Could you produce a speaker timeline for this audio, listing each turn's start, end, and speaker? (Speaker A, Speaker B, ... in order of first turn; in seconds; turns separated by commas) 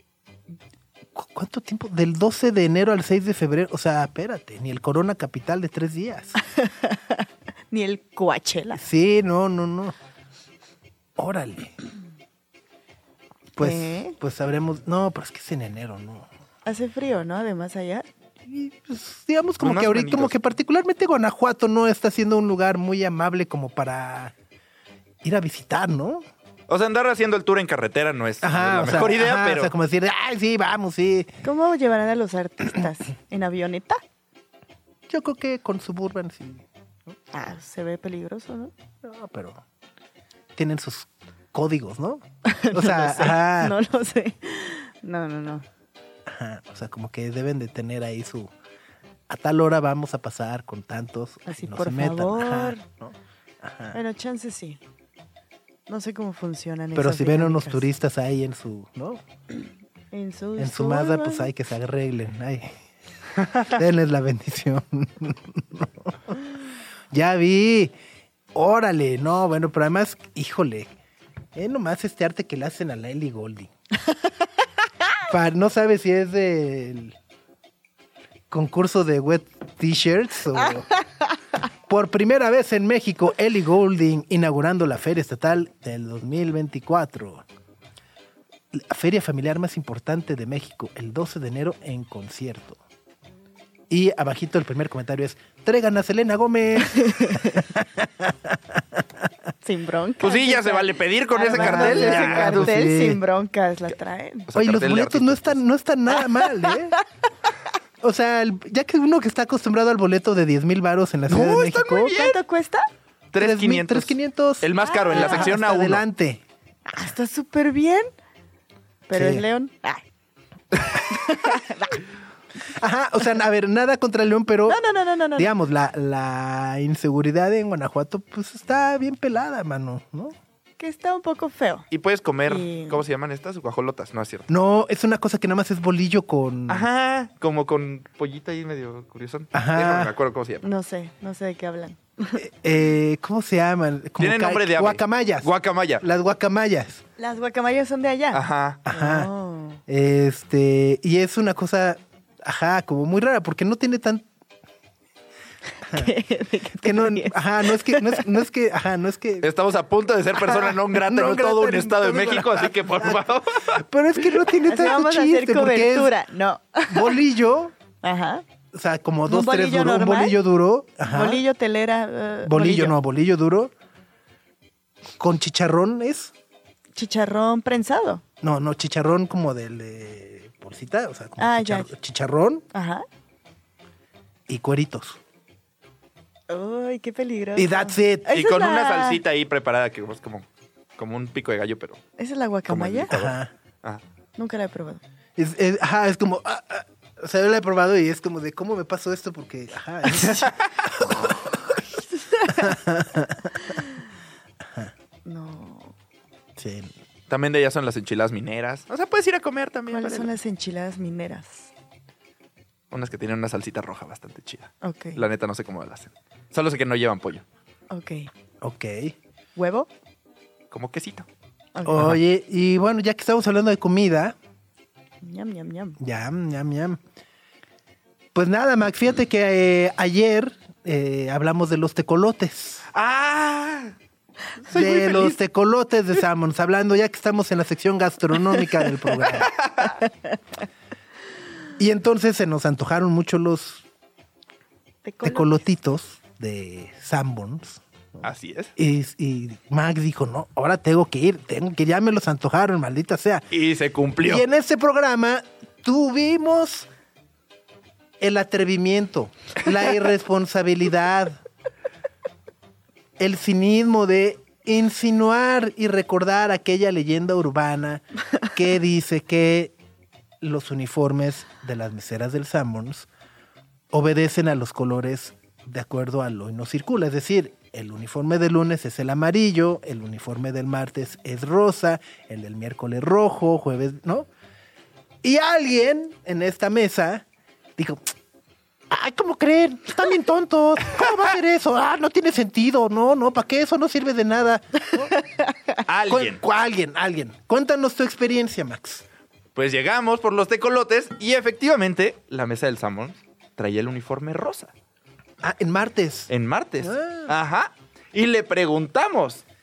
Speaker A: 1.1-6.3, Speaker B: 6.4-8.8, Speaker A: 8.7-9.9, Speaker A: 11.2-11.7, Speaker A: 13.6-16.3, Speaker B: 13.6-14.1, Speaker B: 16.6-18.1, Speaker A: 18.4-24.3, Speaker C: 19.6-20.3, Speaker A: 25.2-26.2, Speaker C: 26.7-29.7, Speaker A: 28.4-31.3, Speaker B: 31.4-34.0, Speaker A: 35.1-36.6, Speaker B: 37.3-38.7, Speaker A: 39.0-39.6, Speaker A: 40.5-43.8, Speaker B: 42.4-45.6, Speaker A: 46.2-48.5, Speaker A: 49.3-54.0, Speaker B: 51.5-52.8, Speaker B: 53.9-54.8, Speaker B: 55.9-57.9, Speaker A: 56.9-59.2, Speaker B: 60.1-61.5, Speaker A: 60.6-62.8, Speaker A: 63.5-66.4, Speaker A: 67.1-67.9, Speaker A: 68.5-70.9, Speaker A: 71.5-73.7, Speaker A: 75.3-77.2, Speaker A: 78.5-80.9, Speaker A: 81.9-87.4, Speaker A: 88.7-92.8, Speaker A: 93.9-99.0, Speaker B: 96.9-97.6, Speaker B: 99.6-104.5, Speaker C: 100.2-102.8, Speaker A: 101.5-103.2, Speaker C: 104.5-105.6, Speaker A: 104.5-107.0, Speaker B: 106.4-107.0, Speaker A: 108.0-112.2, Speaker C: 111.3-112.4, Speaker B: 112.1-112.8, Speaker C: 113.3-116.0, Speaker A: 113.4-116.4, Speaker B: 114.8-115.5, Speaker B: 116.9-118.1, Speaker B: 119.1-120.0, Speaker A: 119.1-119.4, Speaker B: 121.1-122.0, Speaker A: 122.7-124.8, Speaker B: 124.7-125.5, Speaker A: 125.3-130.3, Speaker B: 130.8-131.8, Speaker C: 131.9-134.5, Speaker B: 132.5-133.0, Speaker A: 134.5-136.9, Speaker C: 136.7-140.6, Speaker A: 139.5-140.1, Speaker B: 140.6-142.4, Speaker A: 142.4-147.0, Speaker C: 144.2-146.0, Speaker B: 147.2-149.8, Speaker C: 148.3-148.8, Speaker A: 148.8-149.3, Speaker A: 149.9-154.3, Speaker B: 155.8-158.2, Speaker A: 156.8-159.5, Speaker C: 159.4-163.8, Speaker A: 160.5-166.1, Speaker B: 164.7-167.2, Speaker A: 166.9-167.7, Speaker B: 168.0-168.4, Speaker A: 168.7-171.4, Speaker B: 169.3-170.4, Speaker B: 171.0-172.9, Speaker A: 172.4-173.7, Speaker A: 175.2-176.3, Speaker B: 176.9-178.2, Speaker A: 178.4-182.6, Speaker B: 181.4-181.9, Speaker B: 182.7-183.0, Speaker A: 184.5-185.2, Speaker B: 186.5-189.2, Speaker A: 187.6-188.3, Speaker C: 188.3-190.4, Speaker C: 191.0-192.0, Speaker B: 192.2-193.1, Speaker C: 192.7-194.0, Speaker A: 193.1-193.5, Speaker B: 194.4-195.0, Speaker A: 195.3-201.8, Speaker C: 200.2-200.5, Speaker B: 201.9-202.8, Speaker A: 202.5-203.6, Speaker B: 203.6-204.0, Speaker A: 204.6-204.9, Speaker B: 205.2-205.9, Speaker A: 206.6-206.9, Speaker C: 207.3-210.3, Speaker B: 209.9-211.7, Speaker C: 212.9-217.4, Speaker B: 214.8-215.2, Speaker B: 217.9-218.3, Speaker A: 218.6-219.1, Speaker B: 219.6-219.9, Speaker C: 220.7-221.3, Speaker B: 221.7-222.2, Speaker A: 221.8-224.3, Speaker B: 225.2-226.0, Speaker A: 226.0-227.0, Speaker A: 228.3-232.9, Speaker C: 232.9-233.9, Speaker C: 234.7-235.3, Speaker A: 234.7-239.5, Speaker C: 239.3-239.9, Speaker A: 241.8-243.8, Speaker B: 245.0-245.6, Speaker A: 245.2-248.2, Speaker C: 248.2-248.7, Speaker A: 248.8-253.4, Speaker C: 253.5-254.4, Speaker A: 254.2-256.9, Speaker A: 258.2-261.4, Speaker A: 263.2-269.7, Speaker A: 270.4-273.1, Speaker A: 273.9-284.3, Speaker A: 285.2-287.2, Speaker A: 287.8-288.1, Speaker A: 288.9-295.1, Speaker C: 295.9-296.4, Speaker A: 296.1-299.0, Speaker C: 299.5-304.7, Speaker A: 305.4-307.3, Speaker C: 306.3-309.4